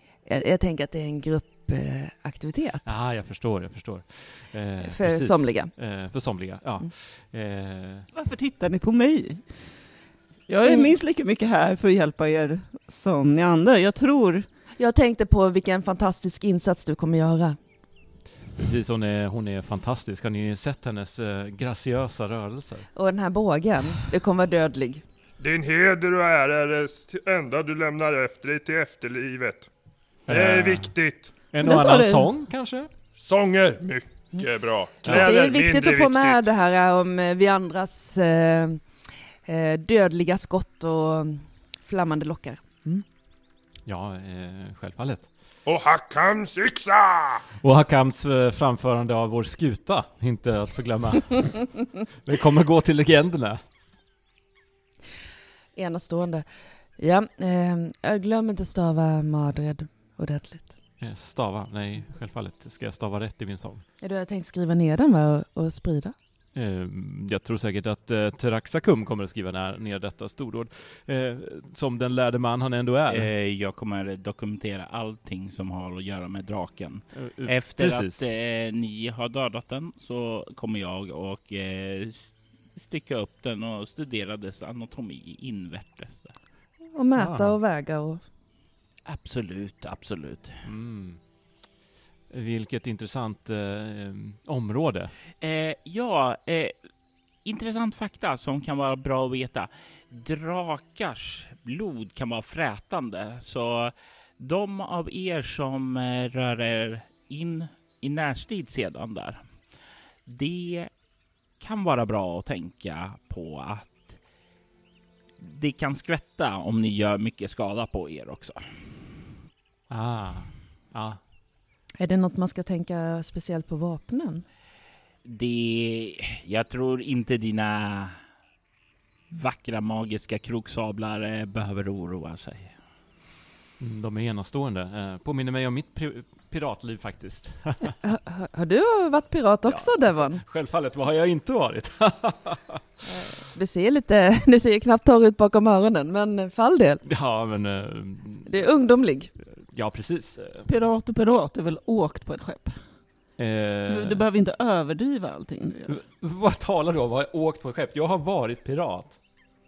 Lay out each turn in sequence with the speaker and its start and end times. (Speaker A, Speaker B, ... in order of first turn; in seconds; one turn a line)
Speaker A: 0.3-2.9
Speaker B: 2.9-8.1
Speaker A: 4.8-5.7
Speaker C: 8.1-9.7
Speaker C: 10.5-14.5
Speaker A: 10.6-10.9
Speaker A: 14.8-17.6
Speaker B: 18.6-22.9
Speaker A: 22.9-25.0
Speaker D: 25.4-29.7
Speaker B: 30.3-31.0
Speaker D: 30.3-31.3
Speaker B: 31.5-32.9
Speaker C: 31.6-32.3
Speaker D: 33.2-36.5
Speaker B: 35.0-35.3
Speaker A: 35.0-38.9
Speaker A: 39.5-43.0
Speaker B: 43.9-45.3
Speaker D: 45.7-47.4
Speaker B: 47.6-53.6
Speaker A: 55.8-56.5
Speaker A: 57.0-60.7
Speaker B: 61.0-63.8
Speaker A: 64.0-66.2
Speaker B: 66.5-73.3
Speaker E: 73.1-86.3
Speaker B: 77.1-78.2
Speaker A: 86.9-88.2
Speaker B: 87.2-87.6
Speaker E: 89.1-90.5
Speaker B: 90.6-91.2
Speaker B: 92.3-95.2
Speaker E: 95.4-96.8
Speaker E: 97.5-109.4
Speaker E: 110.3-110.9
Speaker E: 111.6-114.2
Speaker E: 115.4-118.6
Speaker B: 119.9-121.2
Speaker A: 122.0-124.5
Speaker E: 125.2-128.2
Speaker E: 129.3-132.8
Speaker B: 133.8-137.9
Speaker A: 138.0-140.4
Speaker B: 139.7-142.8
Speaker A: 143.1-147.0
Speaker B: 147.1-148.7
Speaker A: 148.5-149.3
Speaker B: 149.4-150.7
Speaker C: 150.7-152.8
Speaker B: 153.4-154.2
Speaker C: 153.9-156.0
Speaker B: 155.9-159.2